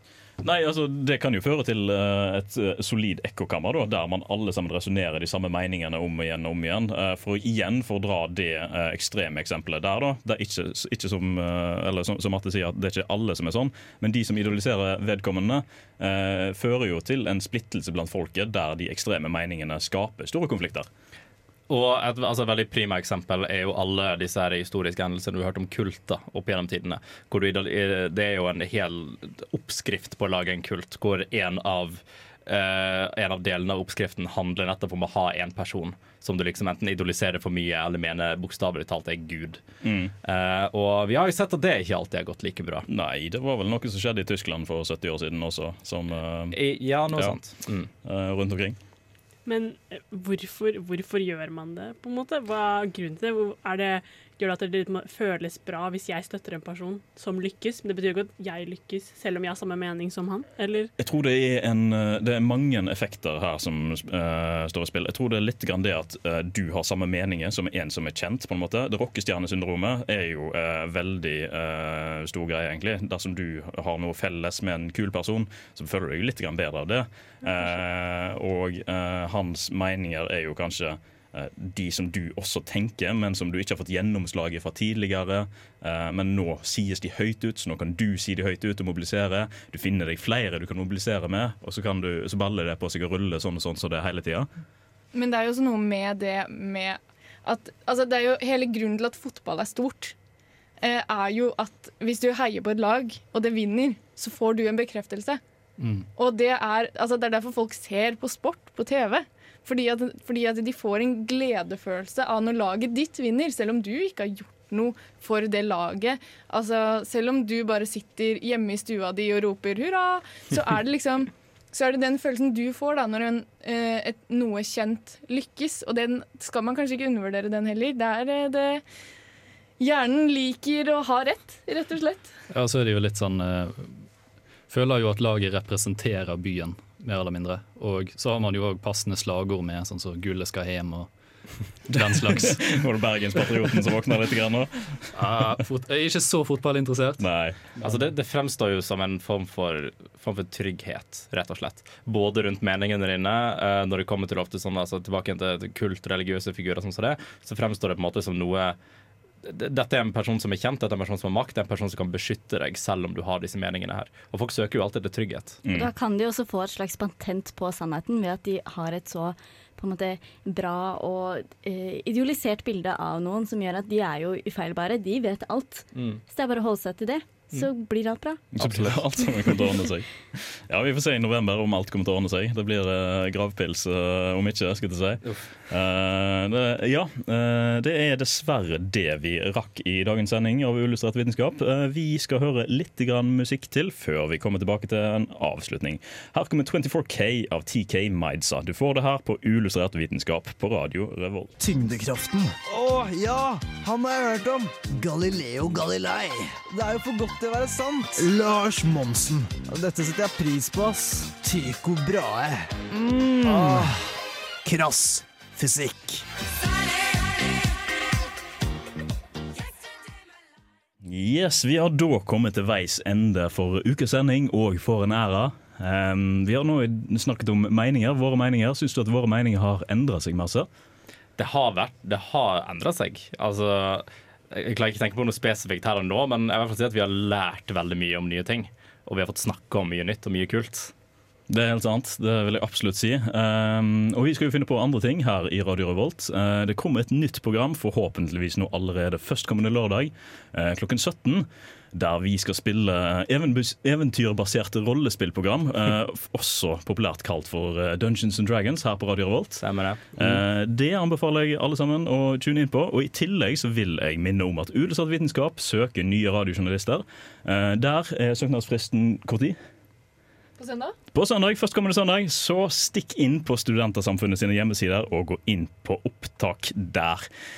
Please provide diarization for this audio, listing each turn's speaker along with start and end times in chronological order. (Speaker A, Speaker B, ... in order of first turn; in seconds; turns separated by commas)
Speaker A: 0.4-20.9, Speaker B: 21.7-39.7, Speaker A: 39.8-40.1, Speaker B: 40.2-42.9, Speaker A: 42.9-46.6, Speaker B: 46.5-47.9, Speaker A: 48.0-48.8, Speaker C: 49.5-60.9, Speaker A: 61.0-94.5, Speaker D: 95.1-100.1, Speaker D: 100.8-105.4, Speaker E: 105.8-106.1, Speaker D: 106.2-128.8, Speaker D: 129.8-132.3, Speaker E: 132.5-134.0, Speaker E: 134.7-141.1, Speaker E: 141.9-142.6, Speaker A: 142.2-145.1, Speaker E: 145.1-147.2, Speaker A: 147.2-147.6, Speaker E: 147.8-148.0, Speaker B: 147.8-158.8, Speaker B: 159.4-165.6, Speaker A: 165.6-165.9, Speaker F: 165.7-178.5, Speaker B: 175.9-176.2, Speaker A: 178.5-201.5, Speaker B: 178.6-179.1, Speaker G: 201.6-214.0, Speaker G: 214.6-216.2, Speaker A: 221.0-230.7, Speaker B: 231.4-240.9, Speaker A: 241.5-269.6, Speaker B: 259.6-260.4, Speaker D: 270.6-270.9, Speaker A: 271.1-277.3